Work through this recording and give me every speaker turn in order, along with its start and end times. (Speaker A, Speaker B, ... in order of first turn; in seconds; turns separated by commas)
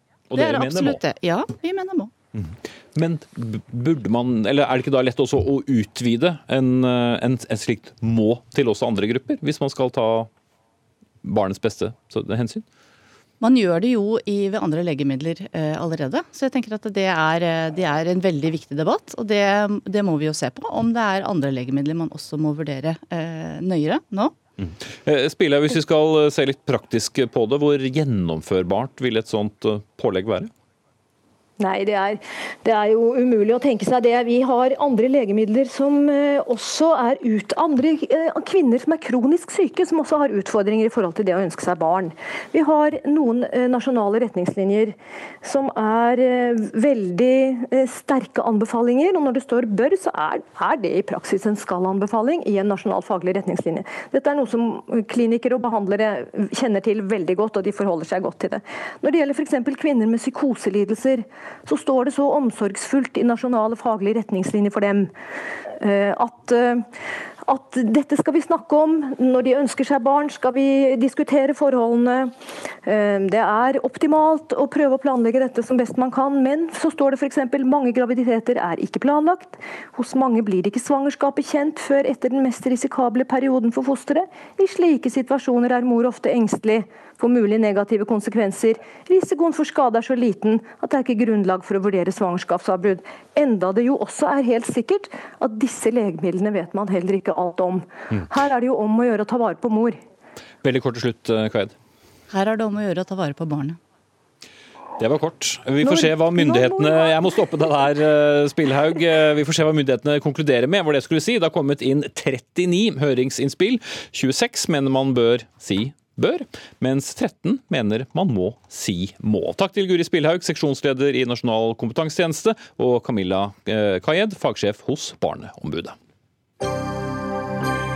Speaker A: 0.3-1.0, Speaker B: 0.3-2.1, Speaker A: 2.4-10.3, Speaker A: 11.2-12.7, Speaker B: 13.4-24.4, Speaker A: 24.6-30.5, Speaker C: 31.6-65.1, Speaker C: 65.8-66.9, Speaker C: 67.5-72.3, Speaker C: 72.8-100.0, Speaker A: 100.6-101.8, Speaker B: 102.3-103.8, Speaker A: 105.0-126.0, Speaker C: 105.8-107.3